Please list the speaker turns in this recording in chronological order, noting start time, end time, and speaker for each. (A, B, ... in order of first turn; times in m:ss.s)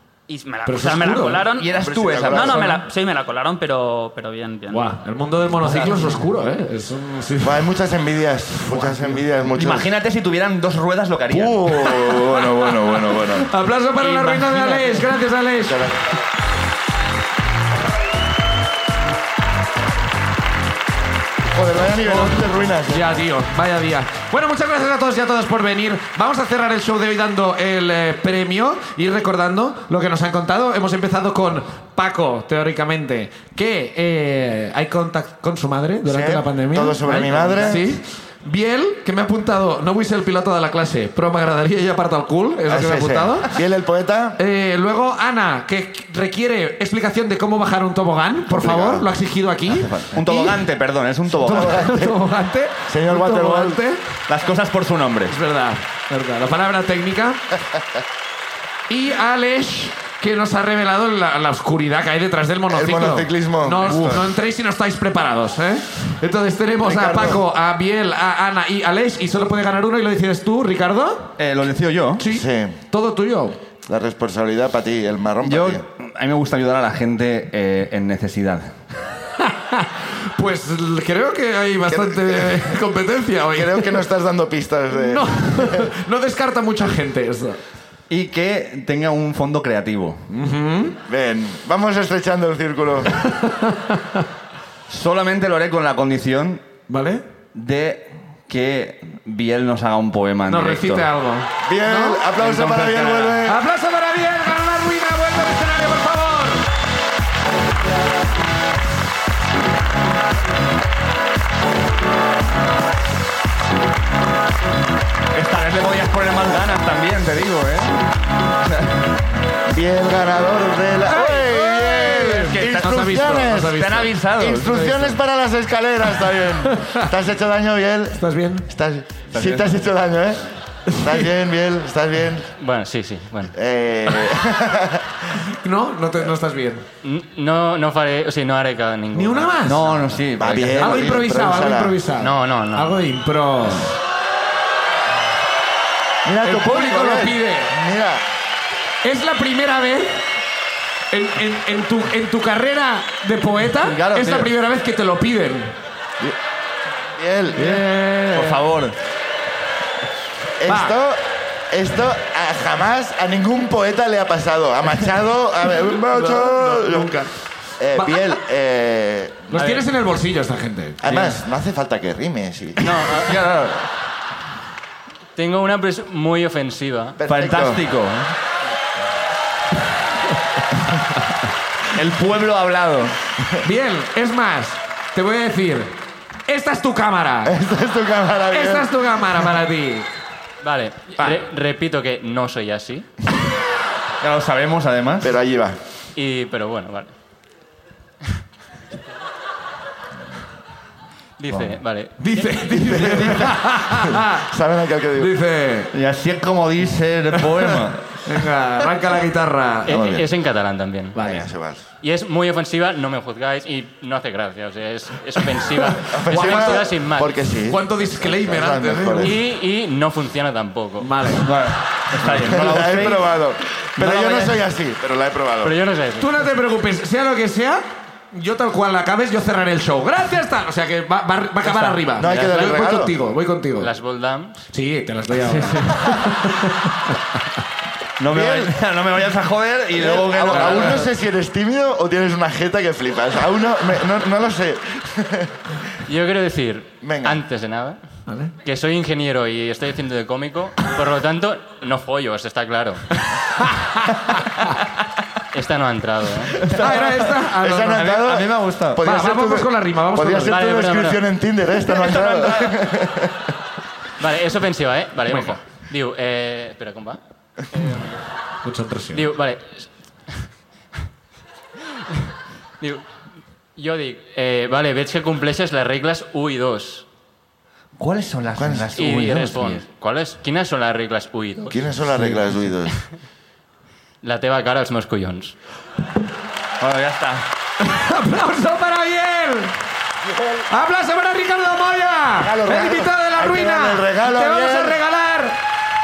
0:00.3-0:04.9 A
0:00.6-0:01.5 B
0:01.5-0:02.7 C
0:01.7-0:02.7 D
0:04.7-0:07.7 B
0:05.6-0:06.2 C
0:07.4-0:09.9 D
0:08.6-0:09.2 B
0:09.6-0:11.9 C
0:11.3-0:13.5 D
0:13.5-0:15.8 B
0:14.0-0:14.8 C
0:15.6-0:16.1 D
0:21.5-0:23.1 D
0:22.0-0:43.6 B
0:36.0-0:37.8 D
0:42.7-0:44.4 D
0:44.4-0:50.6 B
0:48.5-0:49.1 D
0:49.7-0:51.9 C
0:51.4-0:54.0 B
0:51.4-0:52.2 D
0:52.9-0:53.8 D
0:54.3-0:55.4 C
0:55.3-0:57.4 B
0:58.9-1:11.3 B
1:02.7-1:04.2 D
1:03.8-1:04.2 C
1:06.8-1:07.4 D
1:11.4-1:12.2 C
1:12.2-1:13.6 B
1:12.2-1:12.8 D
1:13.8-1:15.8 D
1:15.4-1:18.8 C
1:19.4-1:24.0 B
1:21.9-1:22.8 D
1:23.5-1:25.9 D
1:24.9-1:27.6 B
1:28.1-1:30.2 C
1:30.3-1:31.0 B
1:31.1-1:33.1 D
1:33.2-1:34.2 B
1:34.9-1:36.7 C
1:36.9-1:37.2 B
1:37.5-1:41.1 C
1:40.5-1:42.3 B
1:41.6-1:43.6 D
1:42.3-1:43.4 C
1:43.4-1:46.6 B
1:55.3-1:58.0 C
1:58.6-1:59.0 C
1:59.7-2:12.5 D
2:01.1-2:05.2 B
2:02.3-2:04.8 C
2:08.2-2:08.7 B
2:09.3-2:09.8 C
2:12.6-2:13.5 E
2:13.5-2:15.1 D
2:15.5-2:16.8 B
2:17.0-2:19.8 E
2:19.1-2:19.9 B
2:19.6-2:21.2 C
2:20.4-2:22.0 D
2:20.8-2:24.0 B
2:22.2-2:23.0 E
2:26.2-2:28.2 D
2:26.4-2:27.7 B
2:29.0-2:30.2 B
2:31.1-2:35.8 B
2:33.8-2:34.5 C
2:37.1-2:37.9 D
2:37.5-2:38.6 B
2:38.3-2:38.9 C
2:40.6-2:47.2 D
2:40.7-2:40.9 B
2:46.1-2:47.3 B
2:47.8-2:49.6 D
2:47.9-2:48.3 B
2:49.5-2:51.3 B
2:49.6-2:49.9 E
2:51.0-2:52.8 D
2:51.1-2:51.4 C
2:52.8-2:53.4 E
2:53.1-2:53.8 C
2:55.3-2:57.2 E
2:57.2-2:57.8 D
2:57.3-2:58.3 C
3:01.9-3:03.2 C
3:03.6-3:07.6 B
3:07.4-3:09.4 D
3:08.5-3:10.1 B
3:10.6-3:13.1 E
3:11.2-3:11.4 B
3:14.2-3:15.3 C
3:15.2-3:15.8 D
3:16.1-3:17.1 E
3:21.4-3:22.7 E
3:22.2-3:24.4 B
3:22.9-3:25.3 D
3:25.2-3:25.9 B
3:25.9-3:28.1 C
3:28.2-3:30.1 B
3:29.8-3:31.2 E
3:29.9-3:30.3 D
3:31.1-3:31.5 B
3:31.1-3:31.9 D
3:32.0-3:37.4 E
3:35.8-3:37.0 B
3:36.1-3:39.4 D
3:37.6-3:39.4 B
3:39.2-3:41.2 E
3:41.0-3:41.5 B
3:41.4-3:43.3 C
3:42.2-3:42.6 B
3:42.5-3:45.7 D
3:44.0-3:44.5 C
3:45.6-3:46.4 E
3:46.2-3:53.9 B
3:52.1-3:53.1 D
3:53.8-3:54.6 E
3:54.7-3:56.9 B
3:58.2-4:01.0 C
3:58.3-3:58.8 D
3:59.9-4:05.6 D
4:00.5-4:00.9 B
4:06.0-4:08.0 E
4:07.0-4:07.4 D
4:08.3-4:08.5 B
4:08.6-4:13.0 E
4:15.5-4:16.6 E
4:16.6-4:17.0 C
4:16.7-4:18.1 B
4:16.7-4:23.4 D
4:17.9-4:19.0 C
4:19.0-4:20.9 B
4:20.5-4:21.2 E
4:22.1-4:22.7 E
4:24.2-4:27.2 E
4:27.7-4:28.1 E
4:28.6-4:29.3 B
4:29.1-4:30.4 E
4:32.8-4:37.0 E
4:38.0-4:39.8 C
4:38.6-4:38.9 D
4:39.0-4:41.9 E
4:41.7-4:42.9 D
4:44.2-4:45.5 E
4:46.8-4:47.4 C
4:47.8-4:49.7 B
4:50.2-4:50.7 D
4:50.7-4:55.6 B
4:52.4-4:55.0 D